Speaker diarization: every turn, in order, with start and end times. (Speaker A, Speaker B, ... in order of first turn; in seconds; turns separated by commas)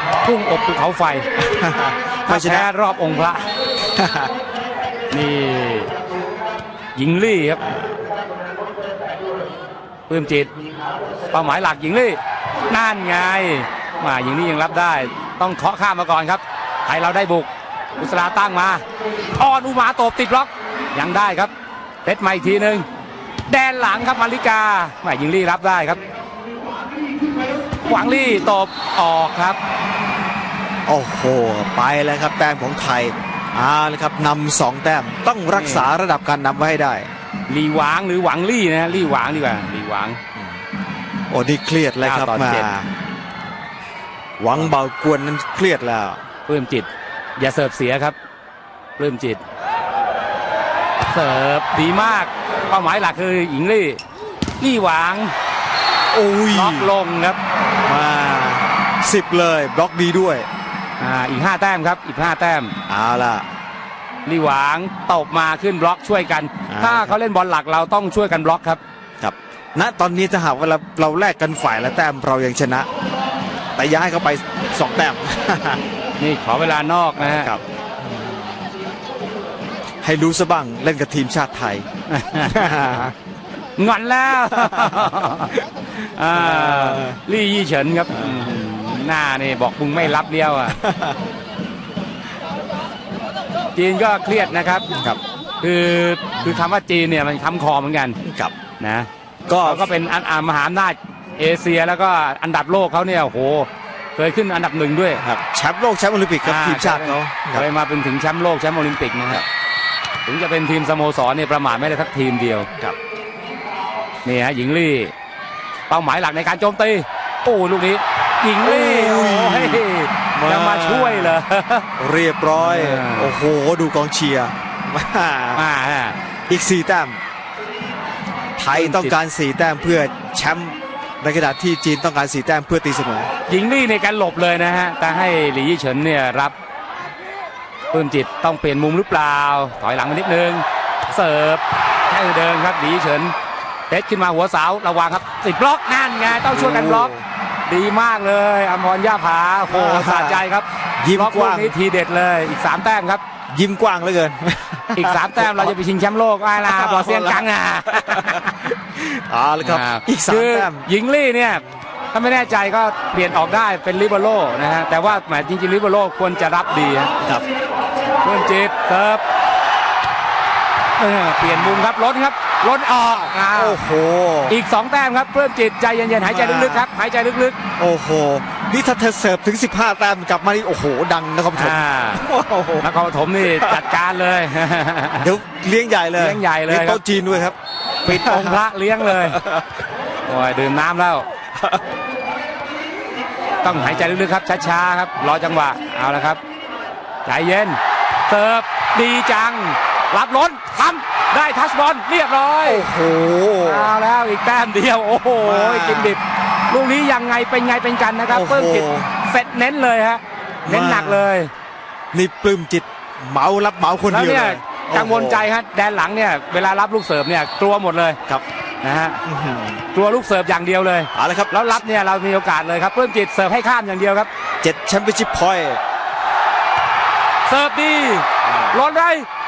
Speaker A: 0.2-1.2, Speaker B: 1.4-2.7, Speaker A: 2.3-3.5, Speaker B: 3.9-4.3, Speaker A: 5.1-5.9, Speaker A: 7.0-7.7, Speaker A: 10.1-10.5, Speaker A: 11.3-18.8, Speaker A: 19.4-21.5, Speaker A: 22.0-22.9, Speaker A: 23.5-26.0, Speaker A: 27.8-29.6, Speaker B: 30.9-37.1, Speaker A: 35.5-35.9, Speaker A: 37.5-40.2, Speaker B: 40.4-40.6, Speaker B: 41.3-42.9, Speaker A: 42.0-42.7, Speaker B: 44.4-46.2, Speaker A: 46.5-48.2, Speaker A: 49.0-49.4, Speaker A: 51.0-54.0, Speaker A: 54.6-55.3, Speaker B: 56.1-56.9, Speaker A: 56.5-57.4, Speaker B: 57.8-60.5, Speaker A: 61.0-62.8, Speaker B: 62.9-63.5, Speaker A: 64.3-68.8, Speaker B: 66.7-67.2, Speaker B: 69.2-72.9, Speaker B: 73.8-75.8, Speaker A: 76.2-77.5, Speaker B: 77.2-78.7, Speaker B: 80.0-81.9, Speaker A: 82.1-82.9, Speaker B: 82.4-83.1, Speaker A: 83.8-90.8, Speaker B: 84.5-85.1, Speaker B: 86.3-87.2, Speaker B: 88.1-88.6, Speaker B: 90.7-91.2, Speaker A: 93.8-94.9, Speaker B: 95.0-95.2, Speaker A: 95.6-98.2, Speaker B: 96.4-96.7, Speaker B: 98.2-98.5, Speaker A: 98.8-99.1, Speaker B: 99.5-99.9, Speaker A: 99.6-105.2, Speaker B: 105.2-107.7, Speaker A: 106.4-109.4, Speaker A: 110.3-112.7, Speaker A: 114.2-115.1, Speaker A: 115.9-121.9, Speaker B: 118.6-119.8, Speaker B: 120.3-121.4, Speaker B: 122.0-125.7, Speaker A: 122.5-123.3, Speaker A: 125.6-126.2, Speaker B: 126.5-127.2, Speaker B: 128.6-133.3, Speaker A: 128.7-129.1, Speaker A: 133.5-136.6, Speaker A: 137.9-143.3, Speaker A: 143.9-147.1, Speaker B: 146.4-147.2, Speaker A: 147.7-153.2, Speaker B: 149.7-150.4, Speaker B: 151.0-151.7, Speaker B: 153.5-155.8, Speaker A: 154.9-158.6, Speaker B: 156.6-160.8, Speaker A: 159.6-167.1, Speaker A: 168.2-169.2, Speaker A: 171.0-173.8, Speaker B: 173.5-174.6, Speaker A: 174.5-177.6, Speaker B: 176.2-176.9, Speaker B: 177.8-182.9, Speaker A: 181.6-182.3, Speaker A: 182.8-185.3, Speaker B: 183.4-183.9, Speaker B: 185.2-187.6, Speaker A: 186.2-187.0, Speaker A: 188.1-189.4, Speaker B: 188.1-188.6, Speaker B: 189.1-189.7, Speaker A: 190.3-191.3, Speaker A: 193.6-196.4, Speaker B: 193.6-194.2, Speaker A: 197.2-202.9, Speaker B: 202.7-203.9, Speaker A: 203.6-211.5, Speaker B: 205.4-206.2, Speaker B: 208.3-209.1, Speaker B: 210.7-211.3, Speaker B: 212.1-215.5, Speaker A: 214.1-218.2, Speaker A: 218.8-219.2, Speaker B: 219.2-219.8, Speaker A: 219.9-224.3, Speaker B: 221.2-221.7, Speaker B: 224.6-225.8, Speaker A: 227.5-229.3, Speaker B: 228.4-228.8